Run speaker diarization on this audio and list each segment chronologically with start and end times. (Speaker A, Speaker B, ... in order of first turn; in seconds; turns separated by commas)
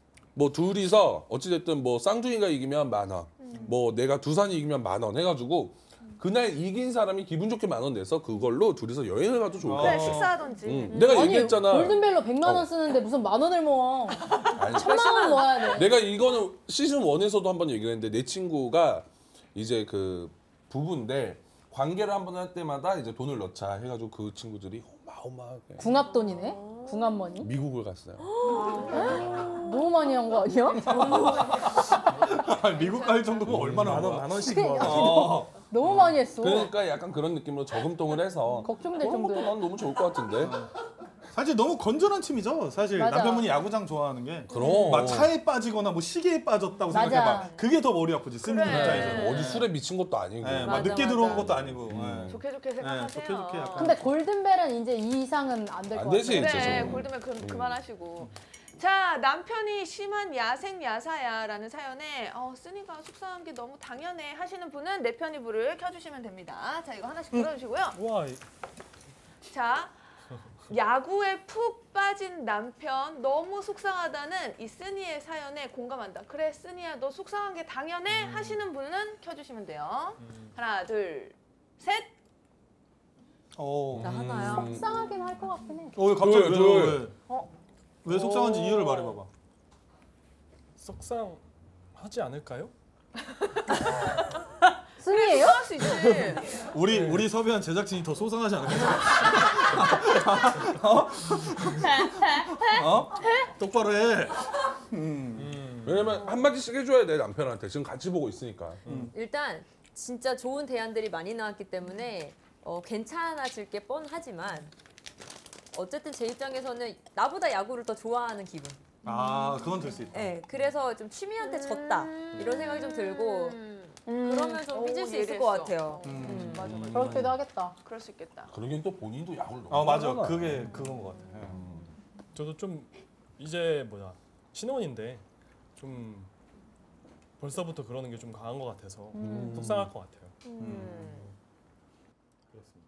Speaker A: 0.3-12.7, Speaker B: 3.4-3.8, Speaker C: 9.6-10.4, Speaker B: 9.7-11.2, Speaker D: 10.9-11.2, Speaker E: 10.9-16.0, Speaker D: 14.3-15.9, Speaker A: 14.6-25.9, Speaker E: 25.8-27.5, Speaker D: 26.1-27.3, Speaker A: 27.4-28.3, Speaker D: 28.2-29.9, Speaker B: 28.5-29.5, Speaker E: 28.8-31.4, Speaker C: 30.9-35.6, Speaker D: 30.9-31.7, Speaker B: 32.8-33.4, Speaker A: 33.4-35.2, Speaker F: 33.7-35.3, Speaker E: 34.3-36.8, Speaker A: 35.8-40.6, Speaker E: 38.6-39.6, Speaker C: 40.4-40.7, Speaker C: 41.3-49.7, Speaker E: 43.0-43.6, Speaker A: 44.5-45.3, Speaker E: 46.9-47.5, Speaker B: 48.4-49.7, Speaker A: 48.7-52.4, Speaker C: 50.4-54.1, Speaker B: 50.6-51.5, Speaker B: 52.3-54.0, Speaker E: 53.8-57.0, Speaker A: 55.9-57.8, Speaker B: 56.3-68.0, Speaker F: 67.9-68.4, Speaker B: 69.5-69.9, Speaker B: 70.7-82.1, Speaker F: 78.1-78.6, Speaker F: 80.2-80.5, Speaker C: 83.6-84.3, Speaker A: 83.9-85.0, Speaker D: 84.0-84.9, Speaker E: 84.5-86.0, Speaker C: 86.0-87.2, Speaker A: 86.2-87.1, Speaker C: 88.0-89.3, Speaker B: 88.1-89.2, Speaker F: 90.8-91.4, Speaker F: 92.0-92.7, Speaker B: 93.2-94.3, Speaker E: 95.0-95.9, Speaker B: 95.1-96.5, Speaker F: 95.9-96.3, Speaker C: 96.5-105.6, Speaker F: 96.8-97.3, Speaker E: 101.9-103.4, Speaker F: 105.4-106.2, Speaker A: 105.8-108.8, Speaker F: 108.8-109.1, Speaker C: 108.9-109.1, Speaker D: 109.1-114.7, Speaker D: 115.7-118.8, Speaker C: 119.0-120.3, Speaker D: 120.1-126.9, Speaker B: 121.5-122.2, Speaker C: 122.3-122.7, Speaker B: 122.7-128.5, Speaker C: 126.0-126.7, Speaker A: 126.3-127.3, Speaker E: 126.9-127.8, Speaker A: 128.5-130.8, Speaker C: 129.7-131.6, Speaker A: 131.4-131.9, Speaker F: 132.3-135.2, Speaker F: 135.8-136.3, Speaker F: 137.4-140.3, Speaker E: 139.1-139.7, Speaker A: 139.2-139.9, Speaker B: 140.4-141.3, Speaker D: 140.5-141.1, Speaker C: 140.6-141.3